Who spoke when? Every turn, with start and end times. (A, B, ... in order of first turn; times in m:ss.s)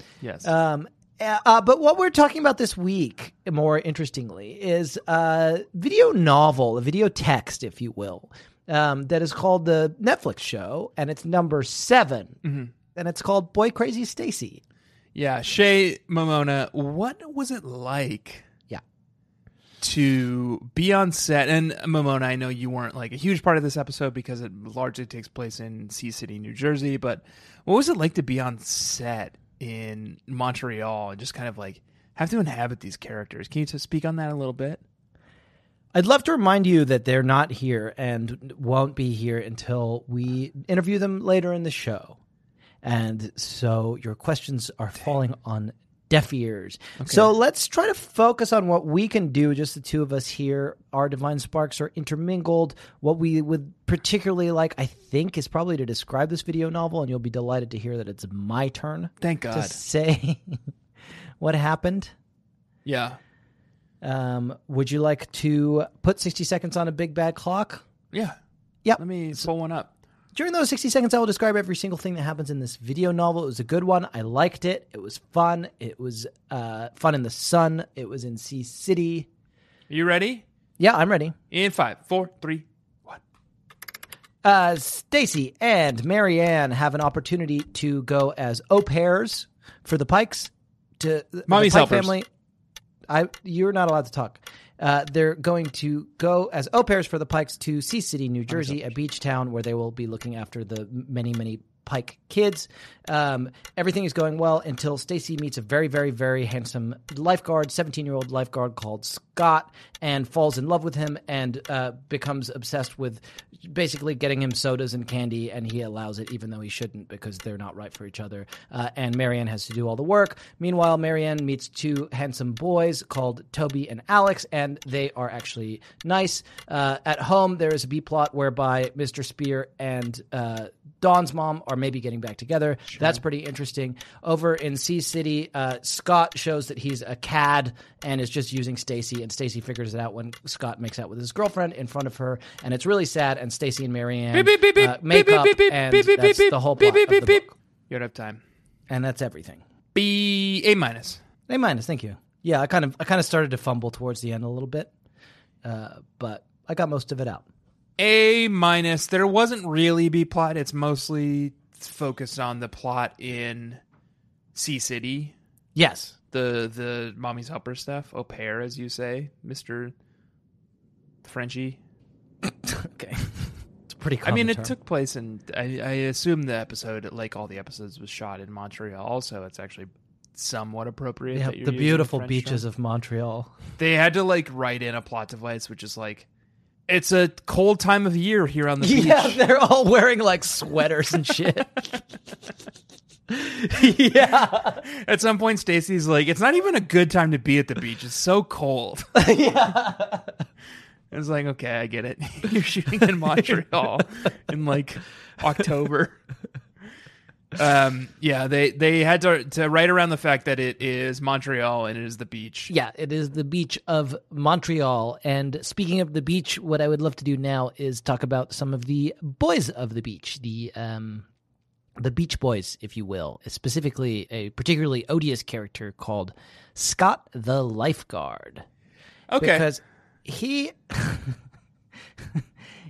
0:00.2-0:00.5 A
0:00.4-0:12.4 B
0:12.4-0:12.7 A
0:12.9-0:14.6 B
0:15.1-0:18.4 A
0:19.8-0:34.8 A
0:35.9-0:42.2 B
0:42.8-1:00.6 B
0:47.0-0:47.3 A
0:59.2-0:59.8 A
1:01.4-1:02.1 B
1:02.8-1:03.2 A
1:04.0-1:07.8 B
1:08.8-1:09.4 B
1:09.0-1:09.9 A
1:10.3-1:19.3 B
1:19.9-1:20.4 A
1:20.8-1:21.4 B
1:21.5-1:23.2 A
1:24.4-1:32.3 B
1:31.5-1:32.1 A
1:33.1-2:27.5 B
1:38.5-1:38.8 A
2:12.9-2:13.2 A
2:24.3-2:28.4 A
2:28.9-2:29.6 B
2:29.9-2:31.2 A
2:31.5-2:34.9 B
2:35.6-2:37.4 B
2:38.0-2:43.8 A
2:44.5-2:45.3 A
2:45.8-2:46.1 B
2:46.3-2:49.9 A
2:51.2-2:51.8 A
2:52.4-2:54.8 B
2:54.2-3:02.6 A
3:01.3-3:03.5 B
3:03.8-3:06.3 A
3:06.9-3:09.4 A
3:08.8-3:11.8 B
3:13.3-3:14.8 B
3:14.8-3:19.1 A
3:19.1-3:20.3 B
3:21.1-3:26.2 A
3:27.5-3:32.7 A
3:32.7-3:41.2 B
3:42.0-3:48.6 B
3:49.3-3:49.7 A
3:49.4-3:51.4 B